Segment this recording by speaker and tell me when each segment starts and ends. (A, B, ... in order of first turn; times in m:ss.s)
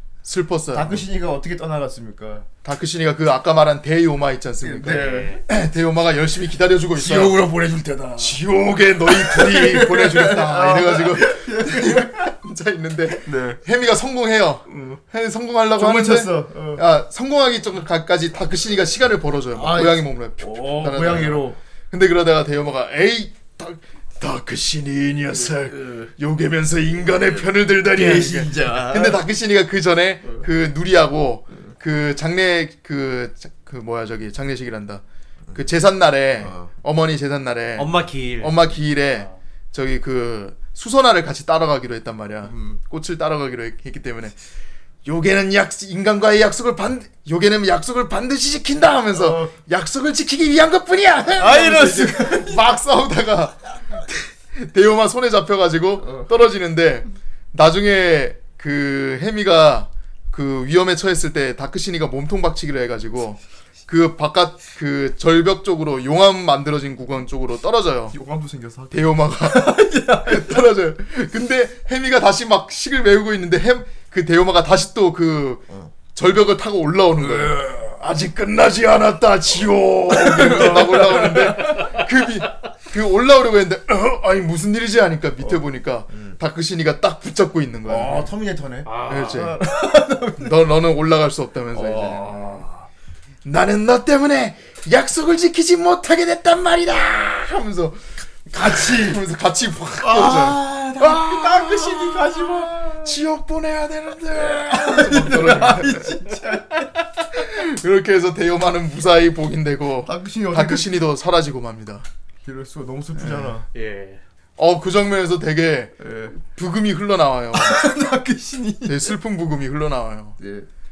0:00.2-0:01.0 A
0:00.7-0:02.5 B
0:02.6-0:07.4 A
0:04.6-0:05.4 B
0:04.8-0:05.4 C
0:07.0-0:08.4 B
0:08.2-0:35.0 A
0:09.0-0:12.3 B
0:13.2-0:13.6 B
0:14.7-0:15.0 B
0:15.7-0:16.8 B
0:19.5-0:21.6 B
0:25.5-0:26.1 B
0:27.9-0:29.2 B
0:35.5-0:44.3 A
0:36.4-0:36.7 B
0:37.8-0:39.3 C
0:42.4-0:42.8 B
0:45.0-0:53.7 A
0:49.1-0:49.5 B
0:51.4-0:52.6 B
0:54.6-1:08.1 A
0:56.0-0:56.3 B
1:08.1-1:10.7 B
1:08.9-1:28.3 A
1:17.2-1:17.8 B
1:20.1-1:21.9 B
1:25.4-1:26.4 B
1:27.9-1:30.6 B
1:28.8-1:29.5 C
1:29.1-1:29.6 A
1:30.4-1:32.6 A
1:31.7-1:32.9 B
1:33.4-1:46.2 A
1:38.5-1:39.2 B
1:40.0-1:43.2 B
1:44.3-1:46.9 B
1:47.3-1:52.0 A
1:50.0-1:50.9 B
1:52.4-1:53.6 B
1:53.2-1:53.6 A
1:53.7-1:54.2 C
1:54.6-1:57.8 A
1:56.0-1:56.4 B
1:57.5-1:59.2 B
1:58.8-2:00.4 A
2:00.4-2:00.7 B